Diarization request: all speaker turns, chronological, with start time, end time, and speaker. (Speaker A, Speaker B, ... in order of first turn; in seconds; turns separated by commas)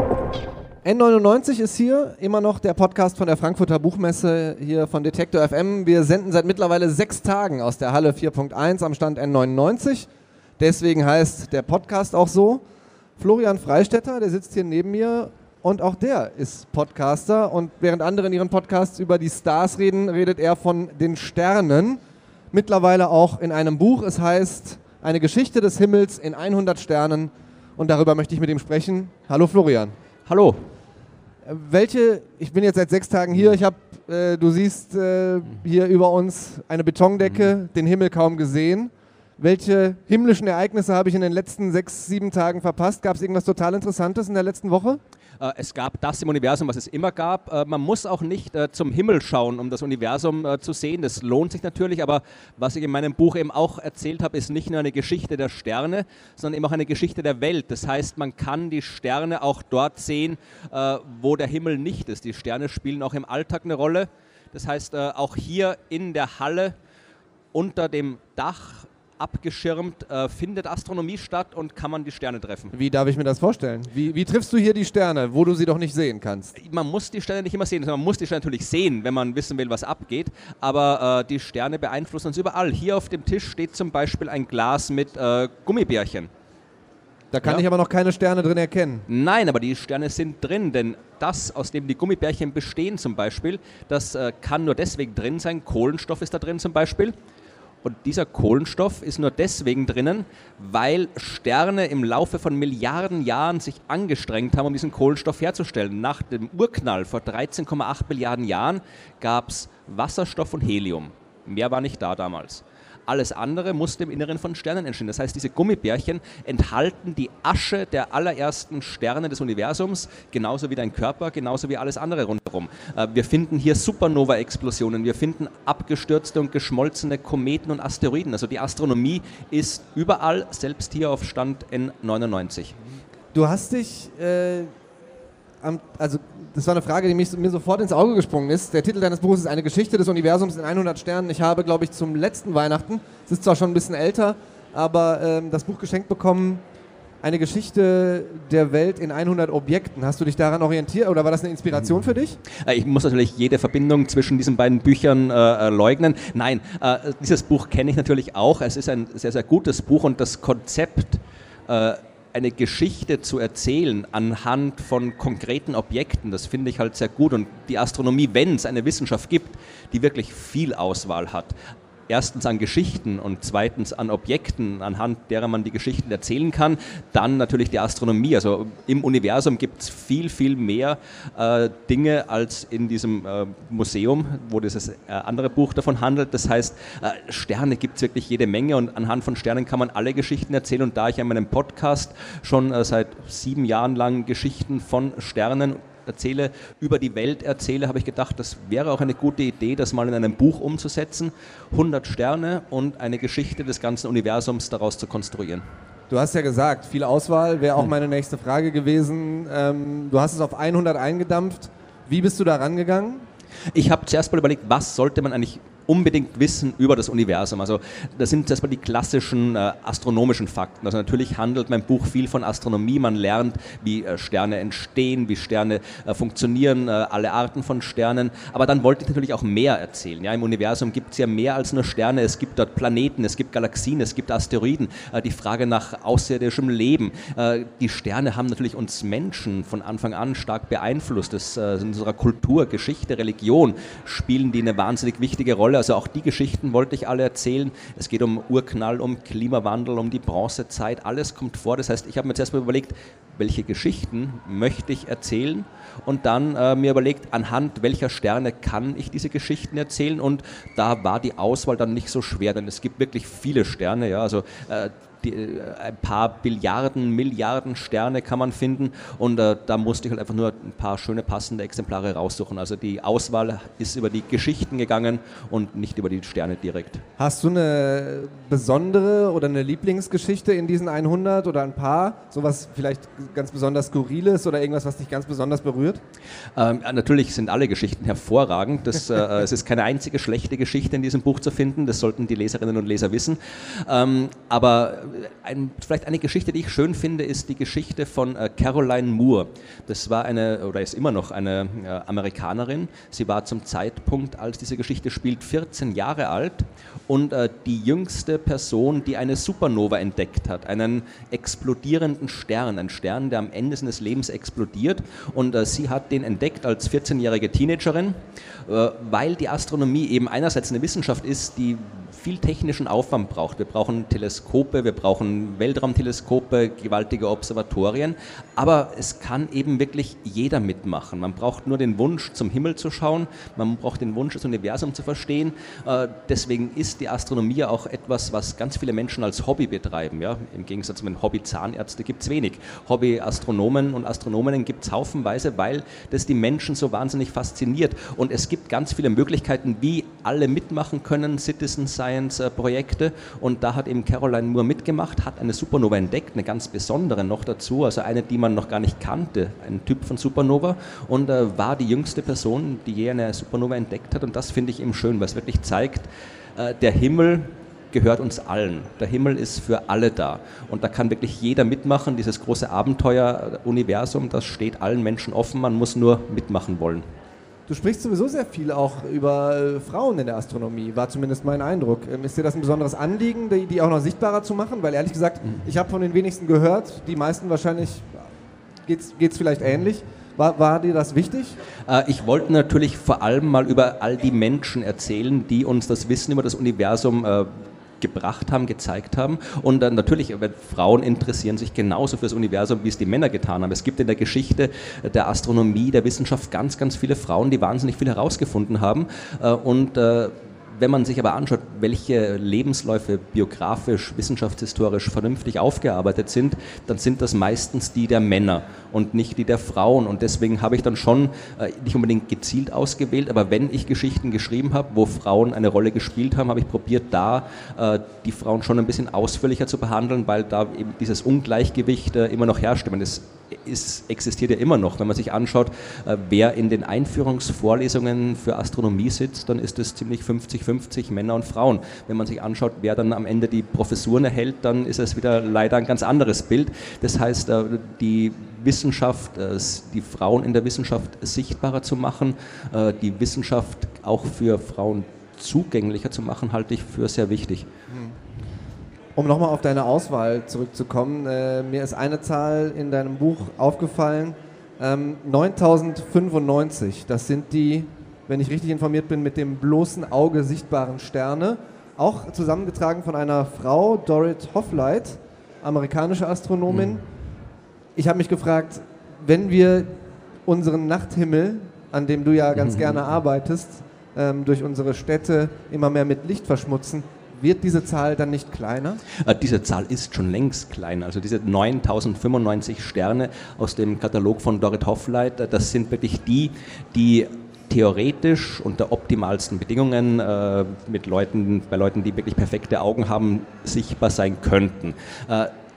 Speaker A: 0.8-10.1, Speaker A: 10.6-12.6, Speaker A: 13.2-22.0, Speaker A: 22.5-29.9, Speaker B: 30.2-30.6, Speaker A: 31.4-45.0, Speaker B: 45.4-66.8, Speaker B: 67.5-72.7, Speaker A: 72.7-76.5, Speaker B: 76.5-86.3, Speaker A: 87.3-89.0, Speaker B: 89.1-97.1, Speaker B: 97.8-132.8, Speaker A: 133.3-134.7, Speaker A: 135.6-146.6, Speaker A: 147.2-152.4, Speaker B: 152.5-171.5, Speaker B: 172.1-205.6, Speaker A: 206.1-213.2, Speaker B: 213.7-277.0, Speaker A: 277.2-286.0, Speaker B: 286.6-377.1, Speaker A: 377.7-388.3, Speaker A: 388.9-391.6, Speaker B: 391.9-457.7, Speaker A: 457.9-458.1, Speaker A: 459.1-477.0, Speaker A: 477.9-489.0, Speaker B: 482.8-483.0, Speaker B: 489.1-505.5